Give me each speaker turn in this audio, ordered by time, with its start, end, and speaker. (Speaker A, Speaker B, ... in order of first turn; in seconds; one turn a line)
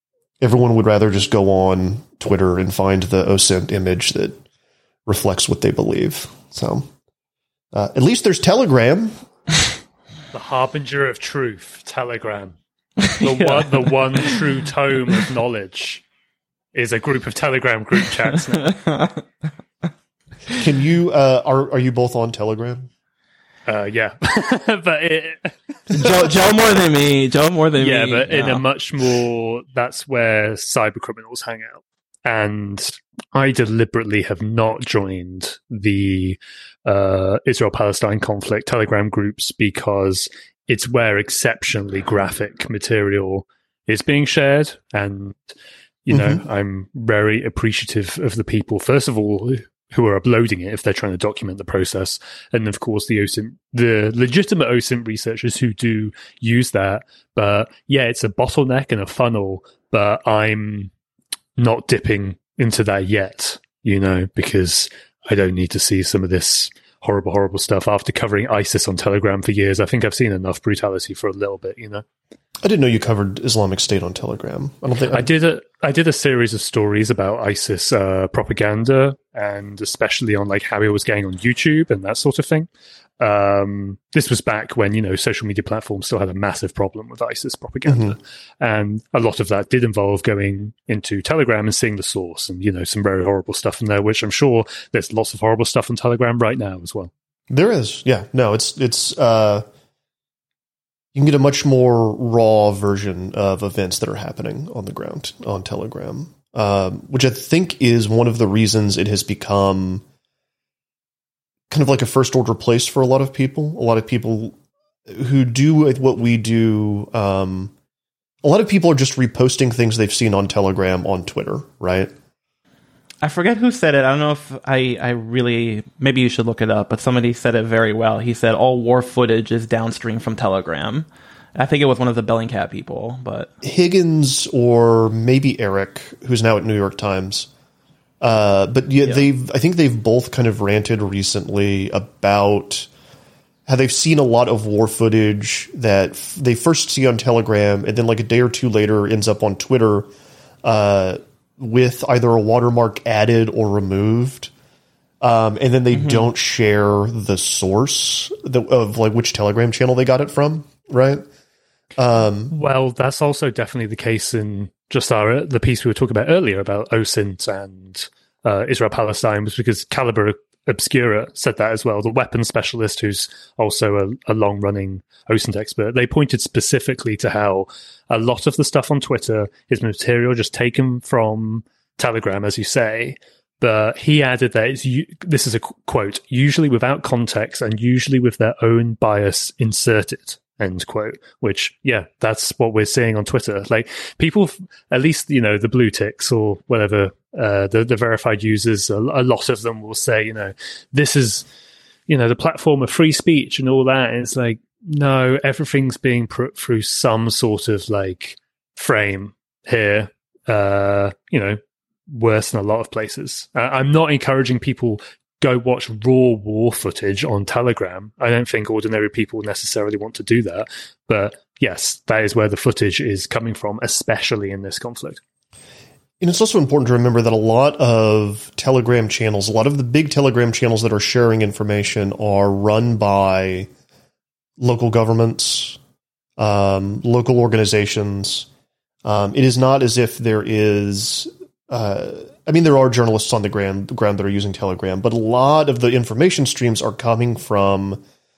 Speaker A: 0.4-4.4
Speaker A: 5.1-6.9
Speaker A: 7.7-9.2
Speaker B: 10.3-12.6
Speaker C: 13.0-14.3
Speaker B: 13.2-16.0
Speaker B: 16.7-18.8
Speaker A: 20.6-22.9
Speaker B: 23.7-26.1
Speaker C: 25.9-28.6
Speaker B: 27.8-45.5
Speaker B: 46.1-60.9
Speaker A: 46.1-46.4
Speaker B: 61.6-72.0
Speaker A: 72.6-75.3
Speaker B: 75.1-82.7
Speaker B: 83.2-97.1
Speaker A: 87.8-88.2
Speaker A: 97.5-99.7
Speaker A: 101.1-110.0
Speaker A: 111.7-114.6
Speaker A: 115.1-117.7
Speaker A: 118.4-122.1
Speaker C: 123.2-133.5
Speaker A: 133.6-137.5
Speaker A: 138.2-142.9
Speaker A: 143.7-150.1
Speaker A: 150.6-154.5
Speaker A: 155.2-161.2
Speaker C: 155.9-156.3
Speaker A: 162.0-162.5
Speaker B: 162.5-201.4
Speaker B: 202.1-225.2
Speaker A: 226.2-233.7
Speaker A: 234.6-235.8
Speaker A: 236.4-238.5
Speaker A: 239.1-248.0